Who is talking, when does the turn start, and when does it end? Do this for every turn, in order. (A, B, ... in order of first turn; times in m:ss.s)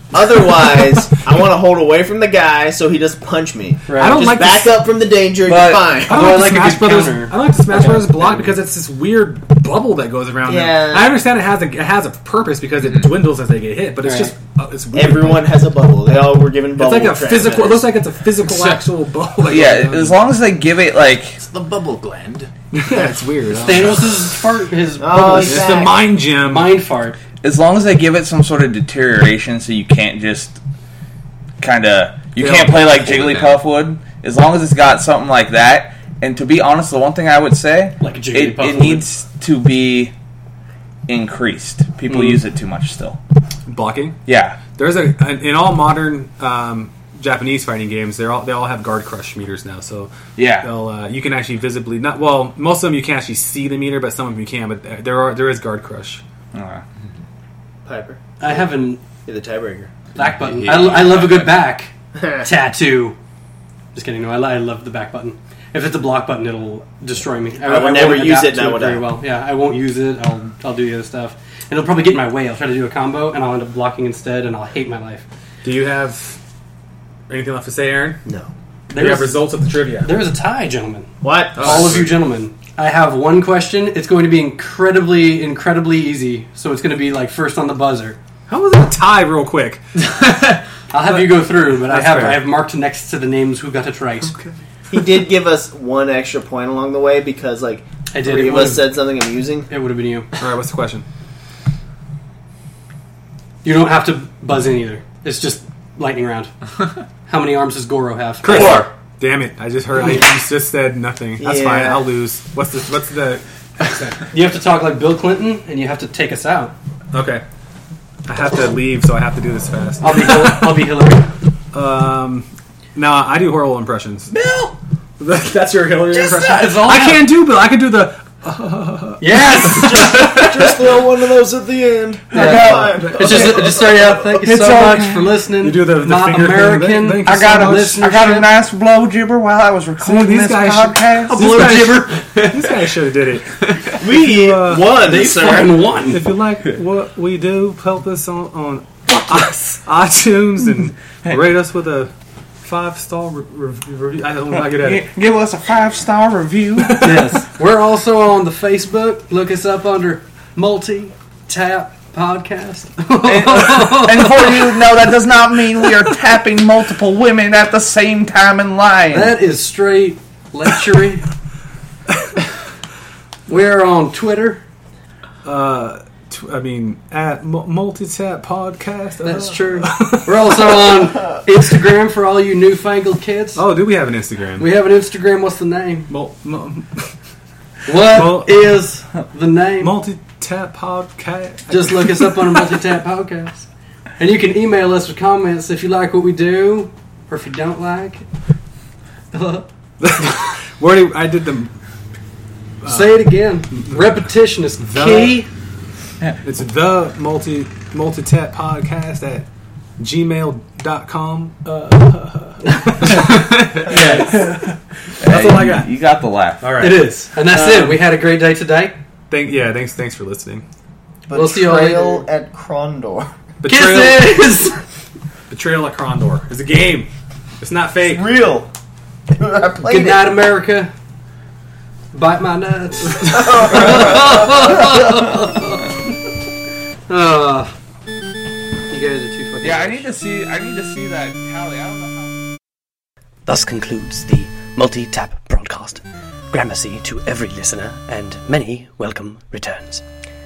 0:00.1-0:06.3 A
0:00.2-0:00.9 B
0:03.9-0:04.3 C
0:04.0-0:04.9 B
0:05.5-0:08.4 C
0:05.9-0:15.6 B
0:10.5-0:11.2 A
0:14.0-0:14.3 C
0:14.9-0:17.9 A
0:16.8-0:20.2 B
0:19.5-0:21.4 D
0:21.4-0:22.5 E
0:22.7-0:24.3 B
0:23.6-0:27.2 C
0:25.0-0:26.0 A
0:25.3-0:26.8 B
0:27.4-0:30.6 D
0:31.6-0:40.1 D
0:32.4-0:33.5 B
0:38.0-0:39.0 C
0:41.1-0:43.2 D
0:42.1-0:42.4 C
0:43.7-0:56.2 B
0:44.3-0:44.6 D
0:50.4-0:50.7 D
0:56.5-0:56.8 D
0:57.8-0:58.7 A
0:58.4-0:59.0 C
0:59.2-0:59.9 A
1:00.2-1:03.2 C
1:00.2-1:01.6 E
1:02.2-1:02.5 A
1:03.9-1:15.3 C
1:07.6-1:09.1 A
1:15.6-1:16.4 B
1:17.3-1:18.2 B
1:18.9-1:19.5 C
1:18.9-1:20.1 B
1:20.0-1:28.2 C
1:21.2-1:22.0 A
1:28.5-1:29.8 B
1:30.9-1:34.4 C
1:31.1-1:32.5 B
1:34.9-1:39.7 A
1:38.1-1:39.0 C
1:39.7-1:40.3 C
1:40.4-1:41.0 B
1:43.6-1:46.5 C
1:47.3-1:48.9 C
1:48.4-1:54.3 B
1:48.5-1:48.9 D
1:51.4-1:52.1 A
1:54.3-1:56.8 C
1:57.1-1:57.4 B
1:58.3-2:00.9 B
2:00.0-2:01.3 C
2:01.7-2:04.3 B
2:04.3-2:04.8 C
2:05.2-2:10.3 B
2:06.1-2:07.3 C
2:09.2-2:10.3 C
2:09.6-2:14.0 A
2:12.3-2:13.7 D
2:12.3-2:18.5 C
2:12.6-2:13.8 B
2:14.4-2:15.3 D
2:15.6-2:18.0 B
2:17.2-2:21.8 D
2:20.0-2:25.0 B
2:21.3-2:22.3 C
2:23.9-2:25.9 A
2:24.9-2:26.3 C
2:26.1-2:32.1 B
2:32.6-2:35.1 B
2:34.7-2:37.1 D
2:36.8-2:37.4 B
2:37.0-2:44.8 C
2:43.2-2:49.4 D
2:49.1-2:51.3 C
2:53.5-2:54.6 C
2:55.4-3:00.8 B
2:59.2-3:03.6 C
3:03.6-3:04.7 B
3:04.6-3:06.1 C
3:06.1-3:07.1 B
3:07.9-3:10.0 C
3:07.9-3:08.6 B
3:09.8-3:12.9 B
3:11.7-3:13.7 C
3:14.2-3:18.2 C
3:19.3-3:19.7 C
3:20.0-3:21.7 B
3:22.8-3:24.2 B
3:22.8-3:25.5 C
3:24.8-3:25.4 B
3:26.4-3:29.5 B
3:30.0-3:35.9 B
3:33.9-3:34.4 C
3:35.2-3:36.9 D
3:36.6-3:37.8 B
3:36.8-3:39.0 C
3:39.3-3:40.6 B
3:41.3-3:43.3 A
3:41.3-3:42.3 C
3:43.6-3:44.6 B
3:43.6-3:44.8 C
3:45.5-3:47.1 B
3:47.6-3:48.4 B
3:48.0-3:48.7 A
3:49.4-3:50.4 A
3:49.8-3:50.9 C
3:52.1-3:56.0 C
3:53.4-3:54.0 A
3:53.6-3:54.0 B
3:57.1-3:57.7 C
3:58.9-4:00.1 C
3:59.6-4:02.3 D
4:03.5-4:10.0 F